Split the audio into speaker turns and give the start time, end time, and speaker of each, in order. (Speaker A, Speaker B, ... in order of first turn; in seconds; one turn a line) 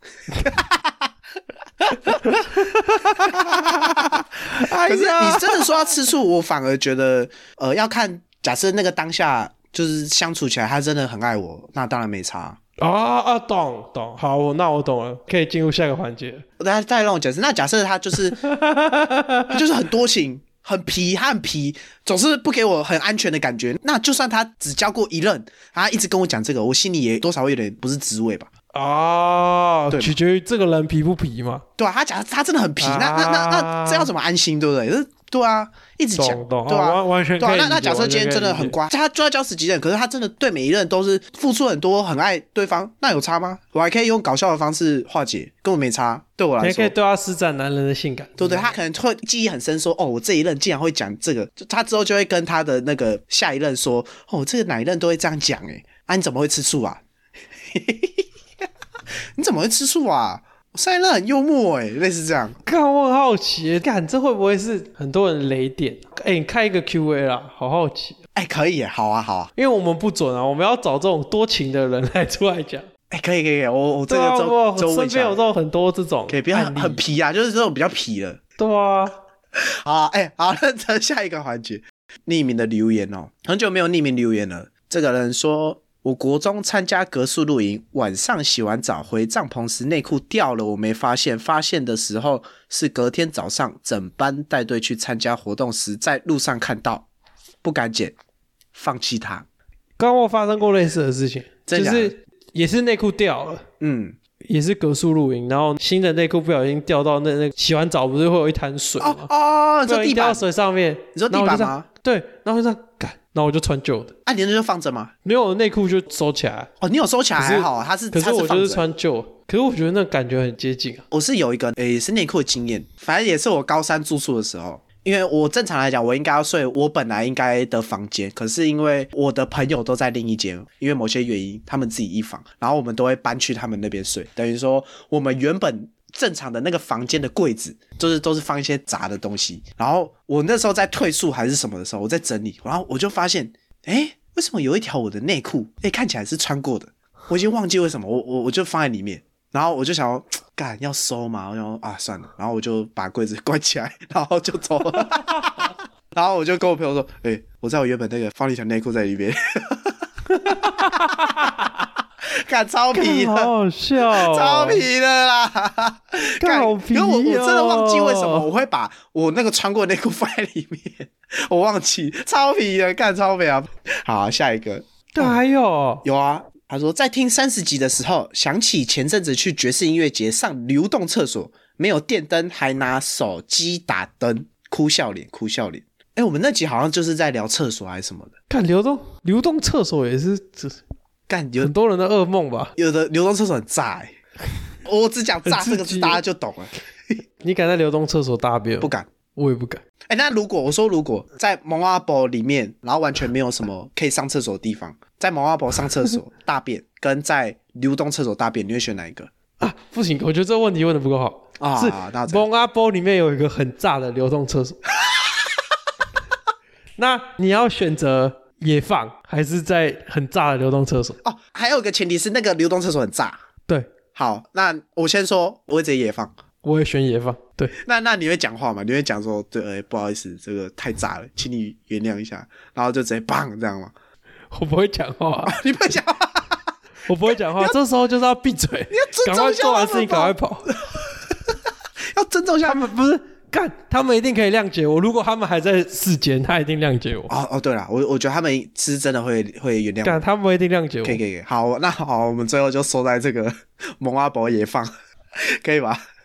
Speaker A: 0.3-1.1
Speaker A: 1.8-12.6
Speaker B: 2.2-5.7
Speaker B: 12.8-16.4
Speaker A: 16.6-18.4
Speaker B: 18.4-19.6
Speaker A: 19.5-28.5
Speaker B: 28.7-31.6
Speaker A: 31.8-46.9
Speaker B: 32.8-34.1
Speaker B: 36.2-38.8
Speaker B: 46.6-48.7
Speaker A: 48.4-57.0
Speaker A: 57.7-58.3
Speaker A: 59.4-62.6
Speaker B: 62.6-68.2
Speaker A: 68.3-69.5
Speaker B: 69.6-72.9
Speaker A: 73.1-75.4
Speaker B: 74.1-77.0
Speaker A: 76.3-78.4
Speaker B: 78.6-79.2
Speaker A: 79.7-97.1
Speaker A: 97.6-98.2
Speaker A: 98.8-99.5
Speaker B: 100.0-103.6
Speaker A: 101.7-102.2
Speaker A: 103.8-104.2
Speaker B: 104.5-109.3
Speaker A: 109.0-110.4
Speaker B: 109.9-114.1
Speaker A: 111.2-111.9
Speaker A: 114.3-115.1
Speaker B: 115.2-116.7
Speaker A: 116.8-118.8
Speaker B: 117.3-121.0
Speaker A: 121.1-161.5
Speaker B: 160.3-161.6
Speaker A: 162.3-175.4
Speaker B: 162.9-164.8
Speaker B: 166.4-168.5
Speaker B: 175.1-176.0
Speaker A: 176.0-188.3
Speaker B: 188.5-190.8
Speaker A: 191.3-191.7
Speaker B: 191.6-192.7
Speaker A: 192.8-194.1
Speaker A: 194.8-197.2
Speaker B: 195.5-196.2
Speaker B: 197.4-199.8
Speaker A: 198.8-199.1
Speaker A: 200.1-209.3
Speaker B: 209.6-214.8
Speaker A: 211.6-212.4
Speaker B: 217.0-221.2
Speaker A: 221.2-223.4
Speaker A: 224.2-226.3
Speaker B: 226.6-227.8
Speaker A: 227.8-233.9
Speaker B: 234.5-235.6
Speaker A: 235.5-236.7
Speaker B: 237.1-240.7
Speaker A: 237.4-237.8
Speaker A: 238.9-242.8
Speaker B: 242.6-247.3
Speaker A: 247.3-250.2
Speaker B: 250.0-251.2
Speaker A: 251.1-256.0